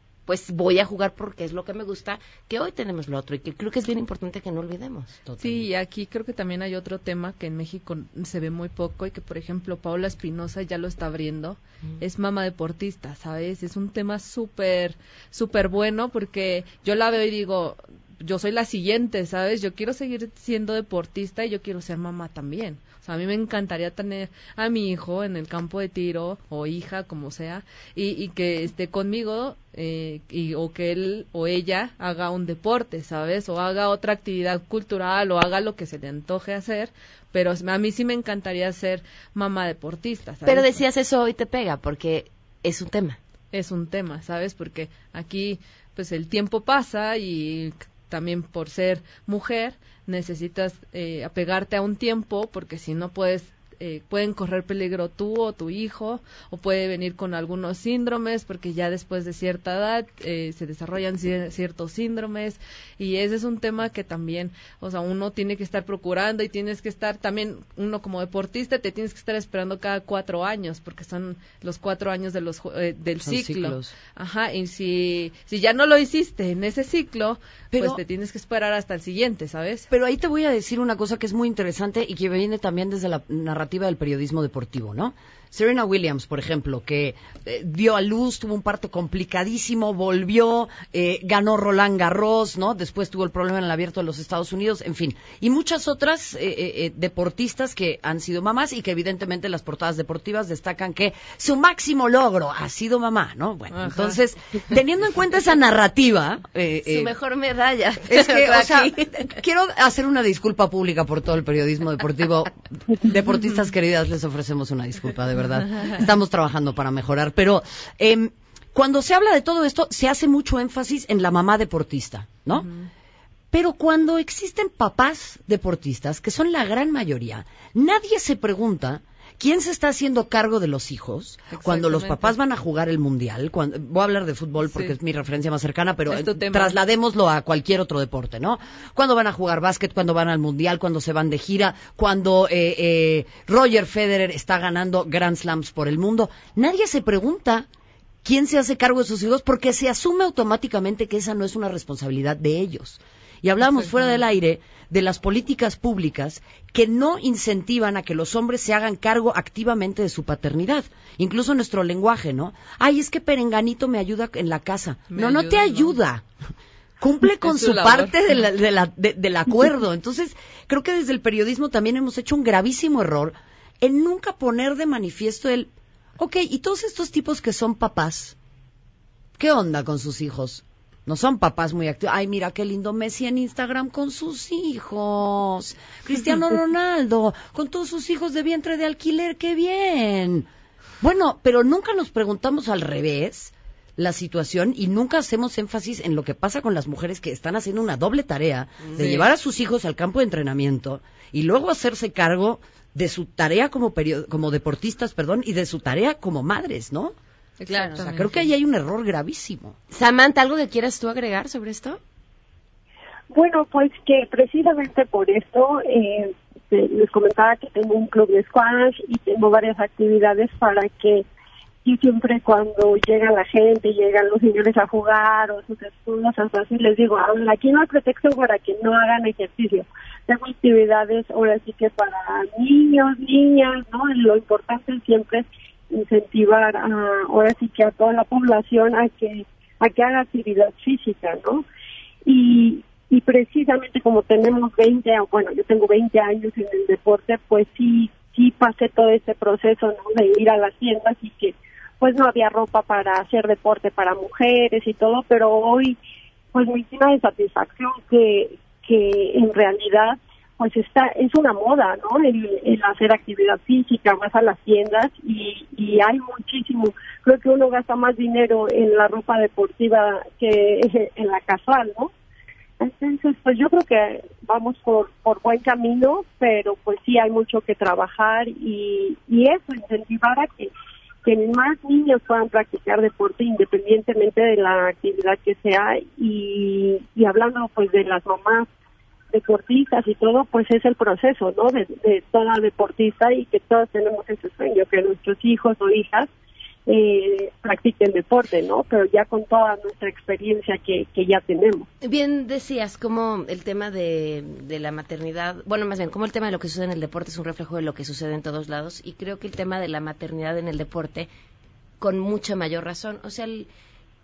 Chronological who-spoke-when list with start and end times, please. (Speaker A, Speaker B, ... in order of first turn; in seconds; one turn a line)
Speaker A: 0.3-5.2
Speaker B: 5.3-5.7
Speaker C: 5.4-40.7
Speaker A: 40.5-43.2
Speaker C: 43.5-79.9
Speaker B: 73.2-74.0
Speaker B: 77.7-78.0
Speaker B: 79.9-107.1
Speaker C: 103.7-104.2
Speaker A: 106.8-109.3
Speaker B: 108.1-122.7
Speaker C: 122.5-122.9
Speaker B: 123.5-147.7
Speaker C: 131.5-132.4
Speaker C: 134.6-134.9
Speaker C: 136.1-136.8
Speaker B: 148.2-166.3
Speaker C: 165.1-166.0
Speaker B: 167.0-178.3
Speaker C: 167.4-168.2
Speaker B: 179.4-190.5
Speaker B: 191.0-207.2
Speaker A: 198.8-199.3
Speaker C: 199.0-199.3
Speaker C: 207.6-208.4
Speaker A: 207.7-208.3
Speaker B: 207.9-209.8
Speaker A: 209.9-212.0
Speaker D: 213.3-221.2
Speaker D: 221.8-241.6
Speaker D: 242.2-256.0
Speaker D: 256.5-272.1
Speaker D: 272.8-280.7
Speaker D: 281.2-288.7
Speaker D: 289.3-296.3
Speaker D: 296.9-301.9
Speaker A: 302.0-311.3
Speaker A: 312.0-313.7